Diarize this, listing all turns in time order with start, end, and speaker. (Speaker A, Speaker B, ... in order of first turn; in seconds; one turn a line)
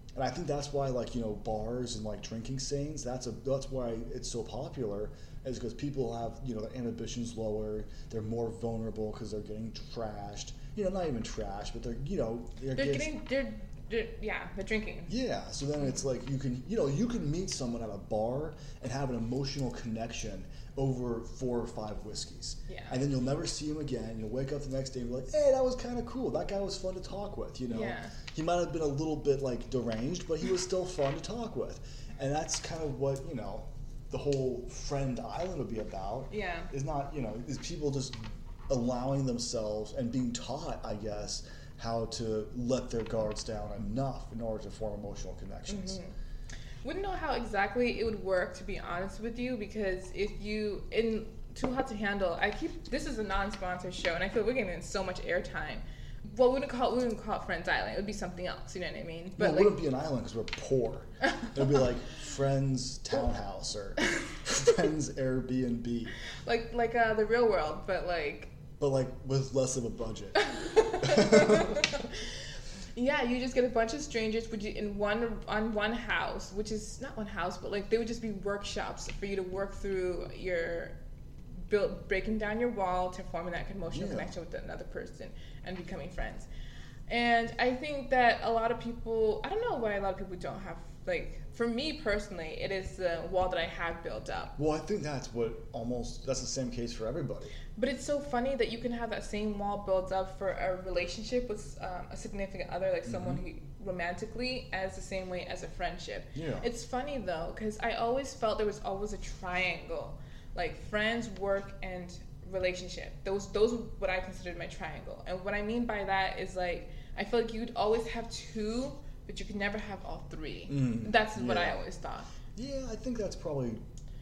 Speaker A: 0.1-13.1
Speaker B: 12.7-15.1
Speaker A: 15.1-46.0
Speaker B: 22.7-23.0
Speaker B: 27.7-28.1
Speaker B: 36.3-36.7
Speaker B: 45.7-46.1
Speaker B: 46.8-59.8
Speaker A: 59.4-66.2
Speaker B: 66.4-68.5
Speaker A: 68.8-72.0
Speaker B: 70.4-72.2
Speaker B: 72.9-80.9
Speaker B: 81.7-86.5
Speaker A: 83.9-84.3
Speaker B: 87.1-94.5
Speaker A: 94.6-97.5
Speaker B: 97.7-122.3
Speaker A: 103.0-103.4
Speaker A: 106.3-106.7
Speaker A: 120.7-121.8
Speaker A: 122.5-123.8